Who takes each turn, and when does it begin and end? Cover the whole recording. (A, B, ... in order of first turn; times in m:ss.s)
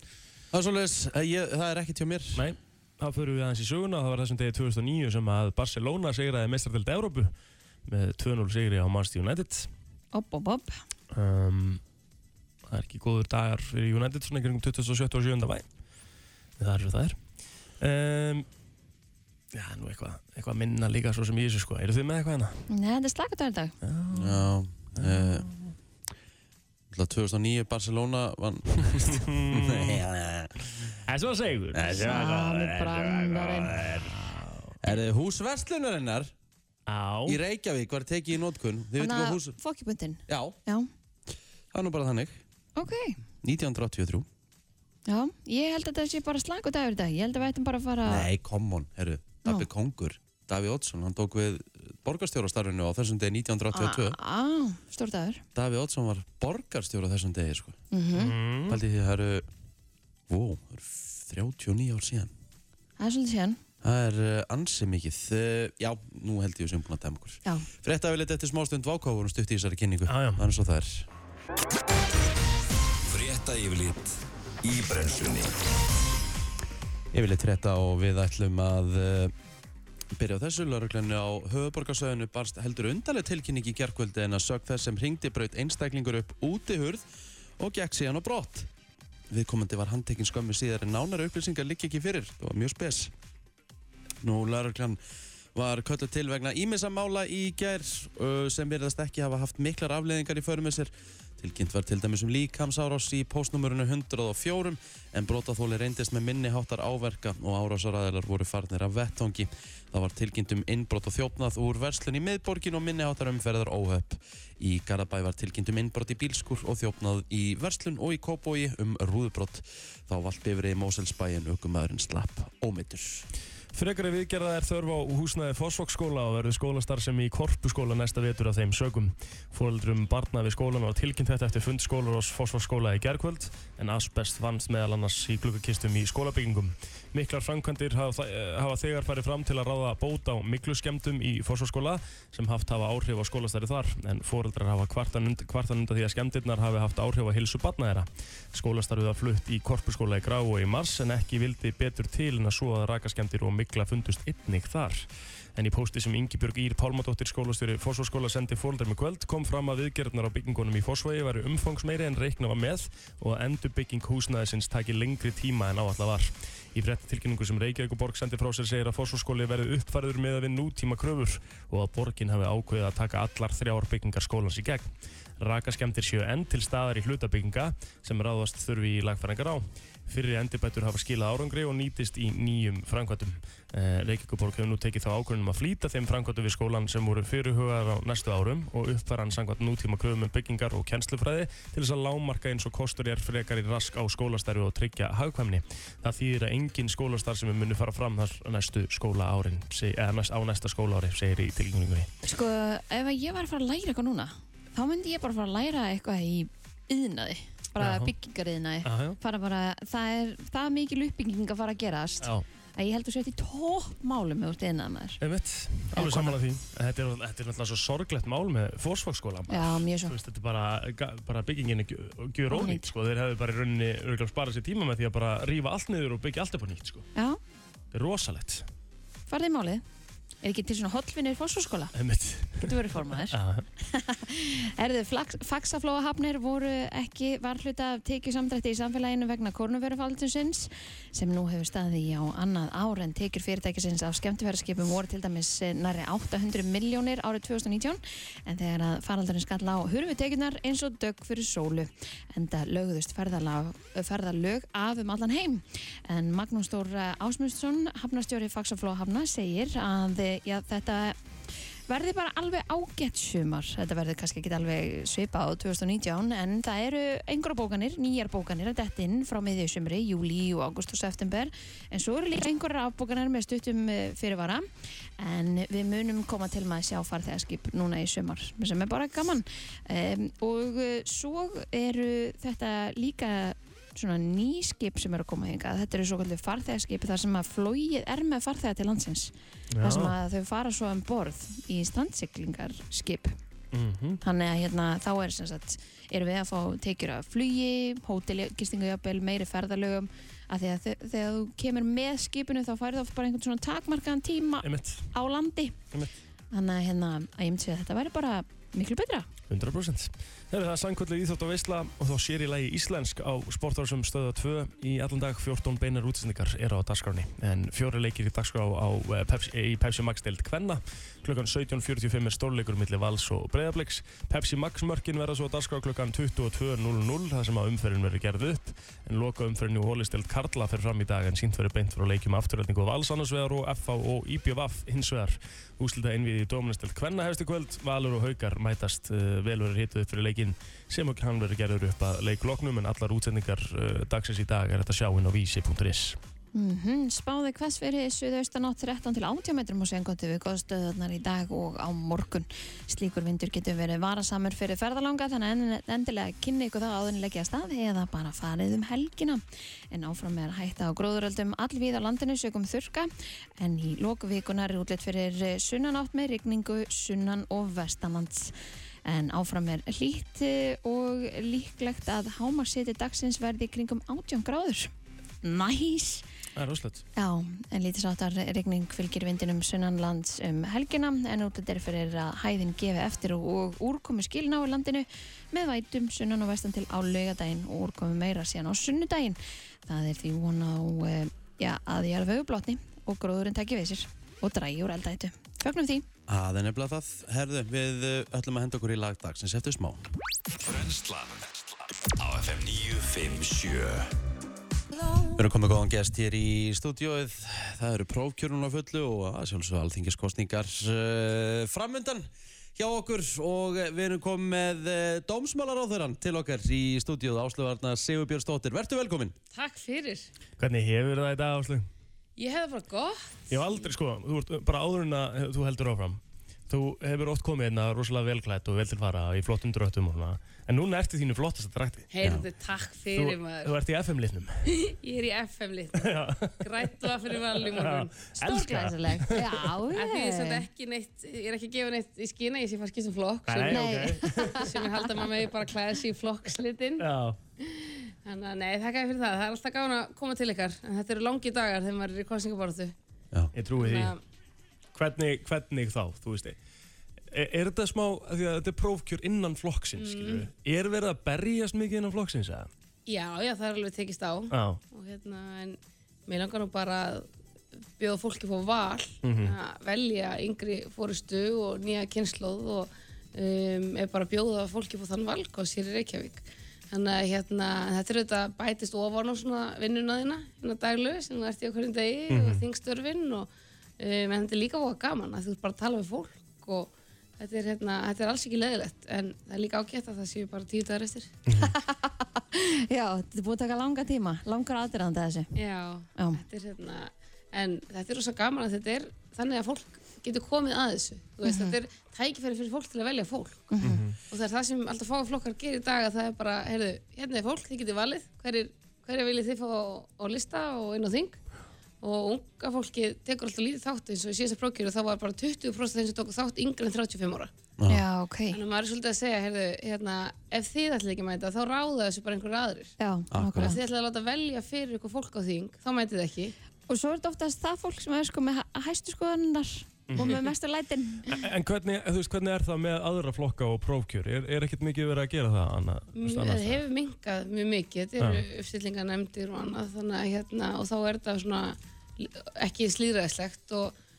0:00.5-0:02.4 A
0:02.4-0:07.3 B
0:07.9-0:09.7 B
0:10.1-0:10.8 C
0:11.1-0:11.8 B
0:12.7-0:15.6 B
0:16.6-0:17.2 B
0:17.8-0:18.5 B
0:19.5-0:22.6 B
0:22.7-0:23.7 C
0:23.8-0:25.7 B
0:24.1-0:25.5 A
0:26.9-0:30.7 A
0:29.0-0:30.0 B
0:31.0-0:34.8 B
0:31.7-0:32.6 A
0:31.9-0:33.8 C
0:33.7-0:34.1 A
0:34.8-0:36.3 A
0:36.9-0:37.4 B
0:37.2-0:39.6 A
0:39.0-0:40.9 C
0:40.3-0:40.6 A
0:41.7-0:42.4 A
0:42.8-0:43.2 C
0:43.4-0:44.2 A
0:45.1-0:48.3 C
0:48.0-0:54.2 A
0:53.7-0:55.4 C
0:55.5-0:57.8 A
0:57.9-0:58.3 C
0:58.1-0:58.8 B
0:58.7-0:59.5 A
1:00.3-1:02.3 A
1:03.0-1:03.6 C
1:03.8-1:11.1 A
1:10.1-1:10.5 B
1:13.1-1:15.5 D
1:17.1-1:19.3 A
1:20.1-1:27.0 A
1:27.6-1:28.7 A
1:29.3-1:33.1 A
1:34.2-1:35.0 A
1:35.5-2:03.3 A
2:03.7-3:22.1 B
3:22.2-3:35.2 C
3:27.8-3:28.1 B
3:28.8-3:29.2 B
3:35.2-3:47.0 B
3:35.9-3:36.4 C
3:39.5-3:40.1 C
3:42.5-3:42.9 C
3:47.9-3:48.6 B
3:49.3-3:49.8 C
3:50.4-3:51.9 C
3:52.0-3:53.6 B
3:52.6-4:21.2 C
4:21.9-4:34.6 C
4:35.2-4:49.3 C
4:49.8-4:50.2 B
4:49.8-4:53.3 C
4:53.7-4:54.2 B
4:54.2-5:05.7 C
5:04.6-5:05.1 B
5:06.5-5:09.3 C
5:09.5-5:46.2 B
5:46.5-6:08.5 C
6:09.0-6:14.9 C
6:15.4-6:16.2 C
6:16.6-6:17.0 B
6:17.2-6:36.0 C
6:36.3-6:40.0 A
6:40.6-6:44.1 D
6:45.3-6:59.3 A
6:59.5-7:00.3 E
7:00.6-7:01.9 B
7:02.4-7:03.5 E
7:03.5-7:12.1 B
7:12.1-7:13.7 E
7:13.1-7:14.6 B
7:14.8-7:18.1 E
7:16.0-7:16.9 B
7:17.6-7:19.6 B
7:18.4-7:20.6 C
7:19.9-7:27.0 E
7:23.5-7:24.7 B
7:23.7-7:24.7 C
7:27.0-7:27.4 B
7:27.6-7:32.9 E
7:33.5-7:34.1 B
7:33.8-7:34.2 E
7:34.9-7:36.6 B
7:37.3-7:42.7 B
7:40.0-7:40.5 E
7:43.1-7:47.3 E
7:44.5-7:44.8 B
7:48.0-8:11.3 E
7:49.2-7:49.6 B
8:02.3-8:02.6 B
8:11.5-8:15.5 C
8:15.6-8:23.8 E
8:21.4-8:21.8 C
8:23.7-8:24.0 C
8:23.8-8:24.2 B
8:24.3-8:31.4 E
8:32.0-8:37.5 E
8:37.8-8:38.0 A
8:37.9-8:38.6 C
8:38.5-8:42.9 E
8:43.0-8:43.8 C
8:43.3-8:43.8 A
8:43.6-8:46.5 E
8:46.9-8:51.3 C
8:50.1-8:50.4 B
8:51.3-8:56.8 B
8:56.2-9:03.9 E
8:58.2-8:58.4 B